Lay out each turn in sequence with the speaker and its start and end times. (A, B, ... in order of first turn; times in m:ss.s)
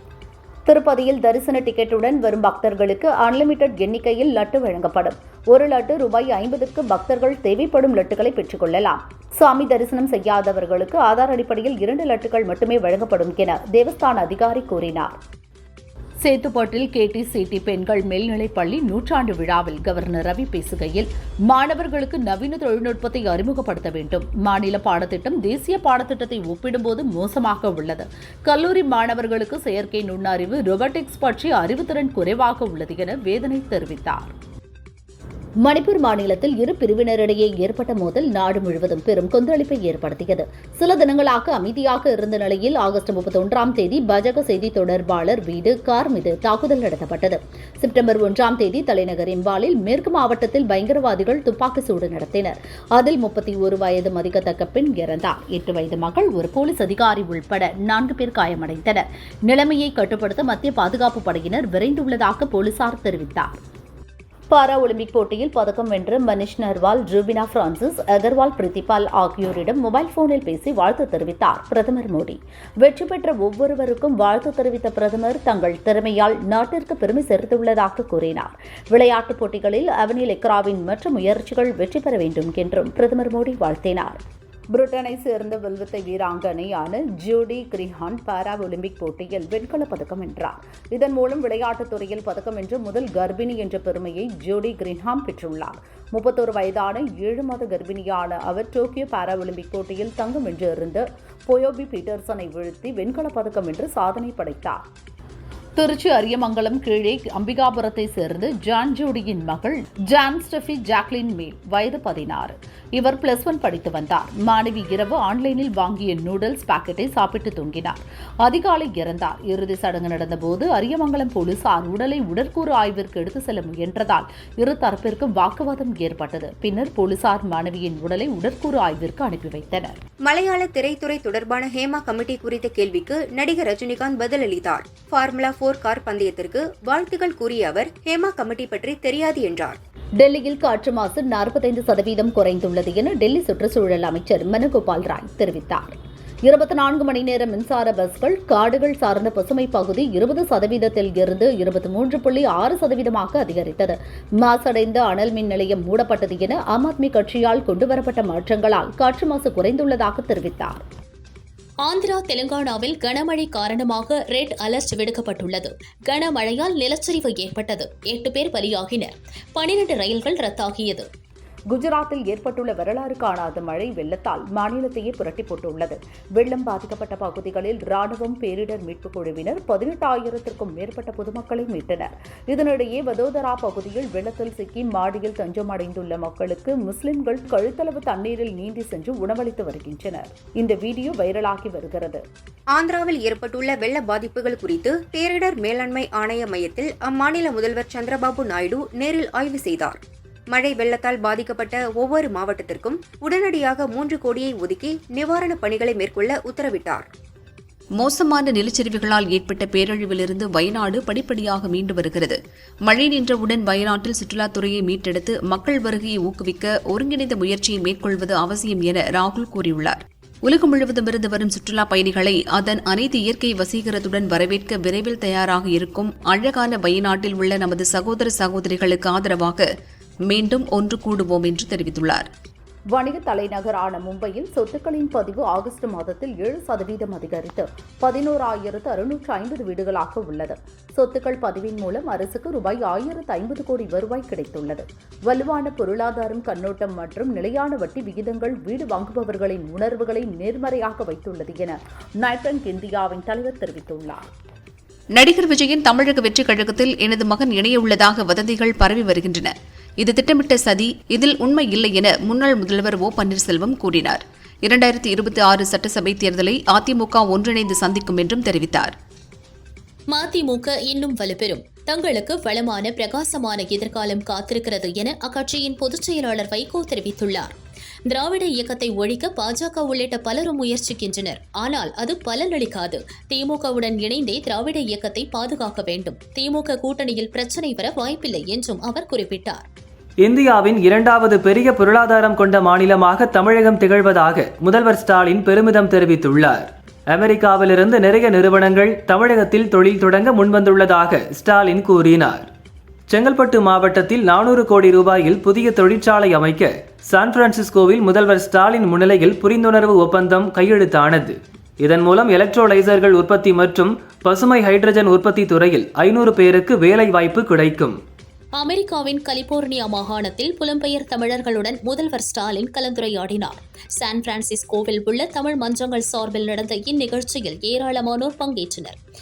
0:00.7-0:15.2 A
0:16.2-0:34.3 A
0:35.6-1:03.6 A
1:04.5-1:24.2 A
1:24.7-1:44.8 A
1:45.8-2:10.0 A
2:10.2-2:19.8 B
2:20.2-2:40.8 A
2:41.8-2:51.1 C
2:51.7-3:12.2 A
3:12.7-3:20.0 B
3:20.5-3:27.1 B
3:28.0-3:49.7 D
3:50.3-3:52.3 D
3:53.0-4:14.3 A
4:15.2-4:28.9 D
4:30.1-4:37.5 C
4:38.1-4:49.6 C
4:50.2-5:02.5 E
5:03.1-5:18.0 E
5:18.6-5:29.0 C